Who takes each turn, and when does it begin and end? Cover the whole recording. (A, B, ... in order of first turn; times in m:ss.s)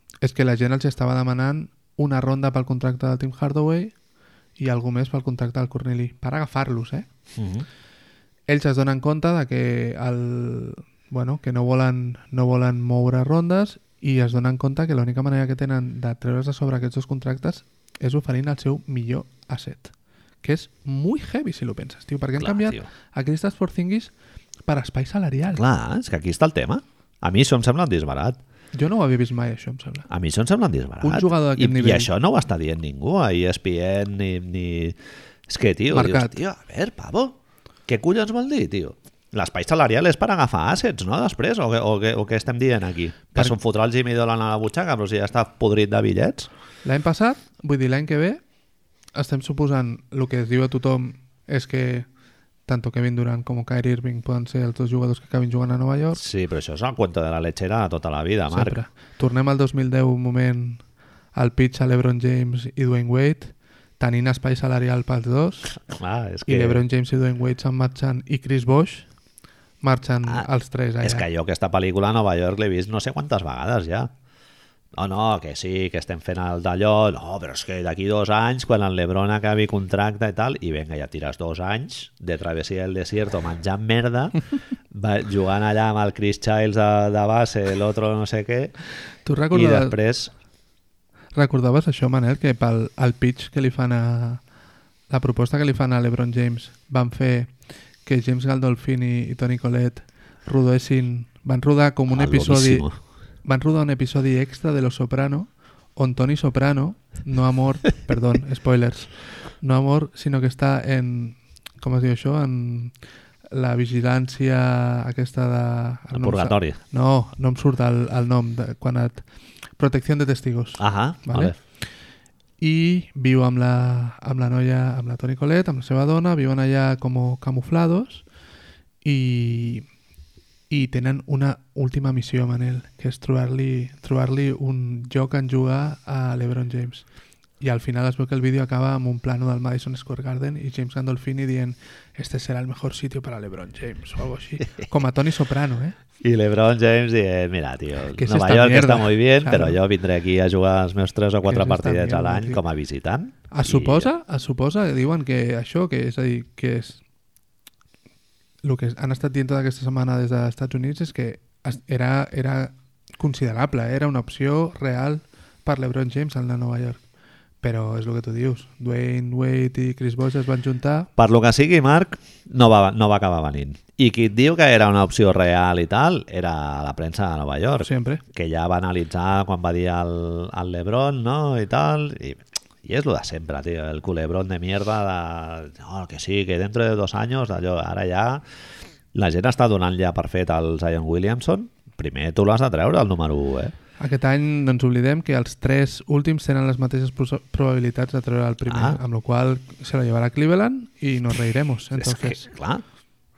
0:00.2-0:03.9 A
0:04.6-0:07.1 A
0:07.4-0:07.6 B
0:08.5-0:24.1 A
0:22.4-0:22.9 B
0:24.7-0:25.6 A
0:25.5-0:28.4 B
0:28.7-0:30.1 A
0:30.1-0:46.5 B
0:31.0-0:32.1 A
0:35.9-0:36.4 A
0:46.8-0:48.4 A
0:49.1-0:52.1 A
0:52.7-0:56.2 A
0:56.1-0:58.8 B
0:58.5-1:00.8 A
1:01.3-1:05.8 A
1:05.9-1:06.8 B
1:06.5-1:09.1 A
1:09.8-1:11.2 A
1:11.0-1:14.1 B
1:15.0-1:28.7 B
1:29.2-1:30.0 A
1:29.5-1:30.3 B
1:31.3-1:34.4 A
1:35.1-1:37.5 A
1:38.0-1:42.9 A
1:42.1-1:43.0 B
1:43.4-1:52.9 A
1:53.5-1:59.2 A
1:56.1-1:56.8 B
1:59.8-2:01.6 A
2:00.8-2:01.6 B
2:02.6-2:08.2 A
2:09.0-2:09.8 A
2:10.7-2:17.1 A
2:17.6-2:26.0 A
2:26.2-2:34.1 B
2:28.2-2:29.8 A
2:31.4-2:32.6 A
2:33.5-2:37.0 A
2:38.6-2:47.0 A
2:47.6-2:51.1 A
2:51.2-3:08.4 B
2:57.8-2:58.2 A
3:09.1-3:13.7 B
3:14.0-3:22.4 A
3:18.7-3:19.0 B
3:22.0-3:22.8 B